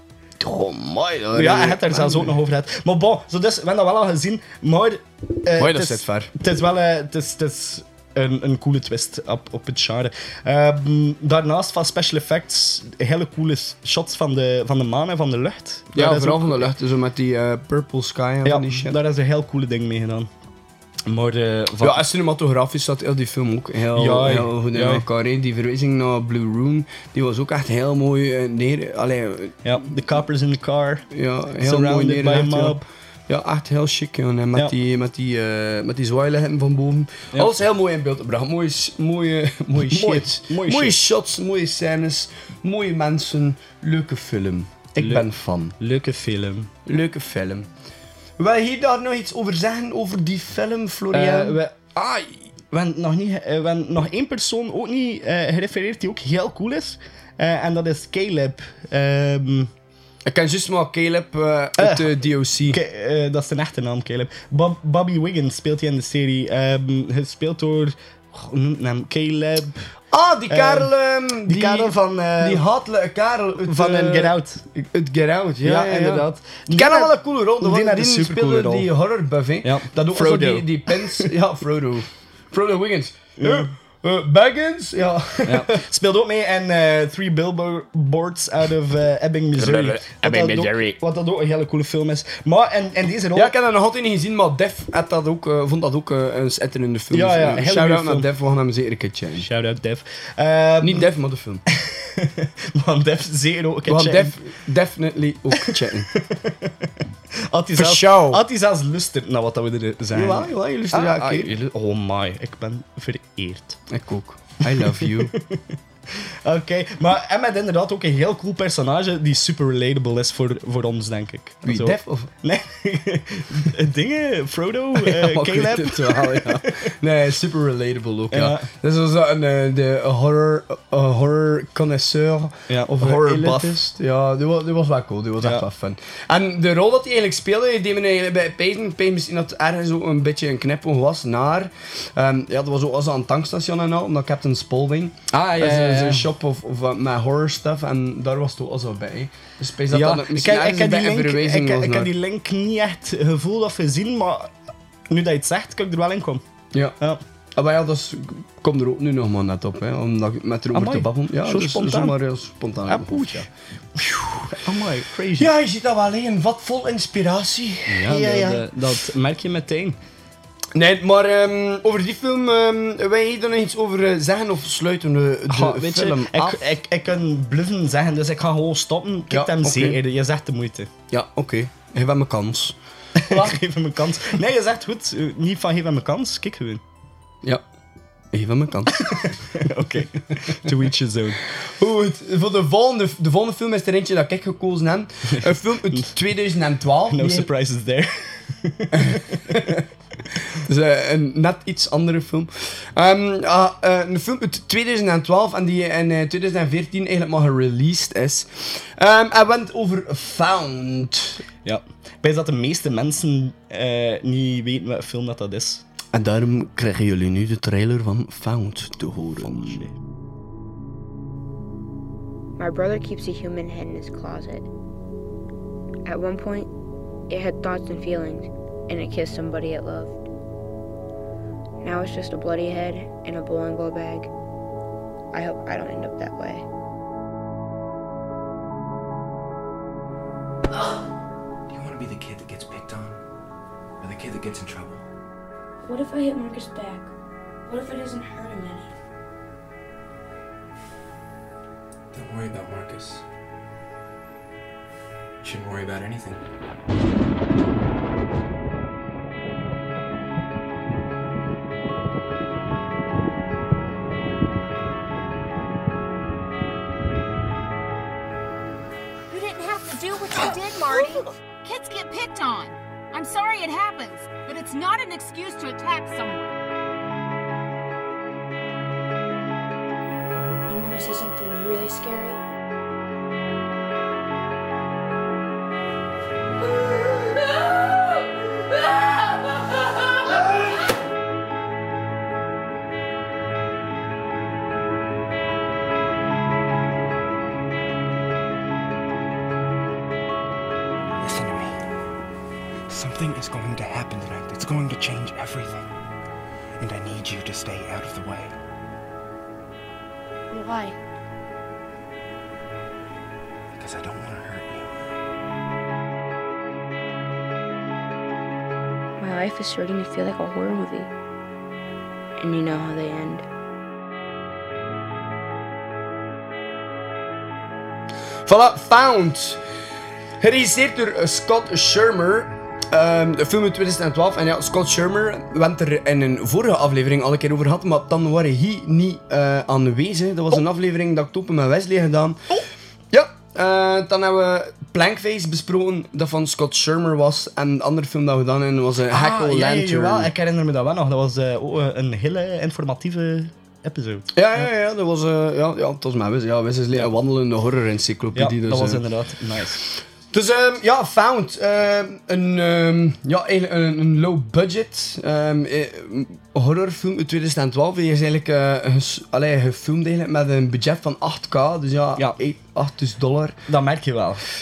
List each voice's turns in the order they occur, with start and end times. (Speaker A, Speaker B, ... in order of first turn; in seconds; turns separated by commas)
Speaker A: 0.4-2.3, Speaker B: 1.3-16.7, Speaker A: 5.6-6.3, Speaker A: 15.9-19.0, Speaker B: 18.4-20.3, Speaker B: 21.1-22.0, Speaker A: 21.8-29.6, Speaker B: 23.9-25.1, Speaker B: 29.6-31.1, Speaker A: 31.1-45.8, Speaker B: 31.6-32.9, Speaker B: 39.8-41.0, Speaker B: 45.0-46.7, Speaker A: 46.9-47.7, Speaker A: 48.4-51.6, Speaker B: 51.1-59.7, Speaker A: 60.3-62.8, Speaker B: 61.8-62.1, Speaker B: 62.7-69.9, Speaker A: 70.1-85.8, Speaker B: 70.5-70.9, Speaker B: 71.5-72.6, Speaker B: 73.6-74.6, Speaker B: 75.6-78.9, Speaker B: 79.6-81.3, Speaker B: 83.4-83.7, Speaker B: 85.5-93.5, Speaker A: 89.6-90.9, Speaker A: 93.3-99.5, Speaker B: 97.1-98.3, Speaker B: 99.4-101.1, Speaker A: 100.8-101.6, Speaker B: 101.7-104.4, Speaker A: 103.9-106.1, Speaker B: 105.5-106.9, Speaker B: 107.5-113.8, Speaker A: 107.8-108.4, Speaker A: 110.1-111.5, Speaker A: 113.9-115.3, Speaker B: 114.7-115.6, Speaker B: 116.3-126.7, Speaker A: 121.6-122.3, Speaker A: 125.0-152.1, Speaker B: 128.3-128.7, Speaker B: 132.7-133.8, Speaker B: 145.3-146.3, Speaker B: 149.9-154.5, Speaker B: 155.1-156.4, Speaker A: 157.6-163.5, Speaker B: 160.7-162.2, Speaker B: 162.9-165.5, Speaker A: 165.4-168.7, Speaker B: 167.9-170.0, Speaker A: 170.8-176.6, Speaker B: 175.5-180.9, Speaker A: 179.3-180.0, Speaker A: 181.1-183.6, Speaker B: 183.2-186.8, Speaker A: 188.3-189.3, Speaker B: 189.1-191.4, Speaker A: 191.6-197.5, Speaker B: 197.1-199.6, Speaker A: 198.9-199.9, Speaker A: 200.5-211.4, Speaker B: 211.7-215.8, Speaker A: 216.1-219.9, Speaker B: 219.4-219.9, Speaker C: 222.6-224.7, Speaker C: 226.1-226.7, Speaker C: 227.3-230.2, Speaker C: 231.8-234.3, Speaker C: 235.3-236.7, Speaker D: 241.7-243.2, Speaker D: 244.0-245.0, Speaker C: 245.8-247.1, Speaker C: 247.7-248.9, Speaker D: 252.1-253.2, Speaker D: 255.4-256.4, Speaker E: 269.3-276.6, Speaker C: 280.7-282.4, Speaker D: 301.2-301.7, Speaker D: 302.9-305.9, Speaker D: 306.8-308.5, Speaker C: 310.5-310.9, Speaker D: 313.8-314.9, Speaker C: 319.2-321.1, Speaker C: 322.4-323.4, Speaker A: 328.5-329.6, Speaker A: 330.4-342.4, Speaker A: 343.1-350.3, Speaker B: 349.1-354.7, Speaker A: 354.3-359.0, Speaker B: 358.4-359.8, Speaker A: 360.3-373.6, Speaker B: 373.7-374.4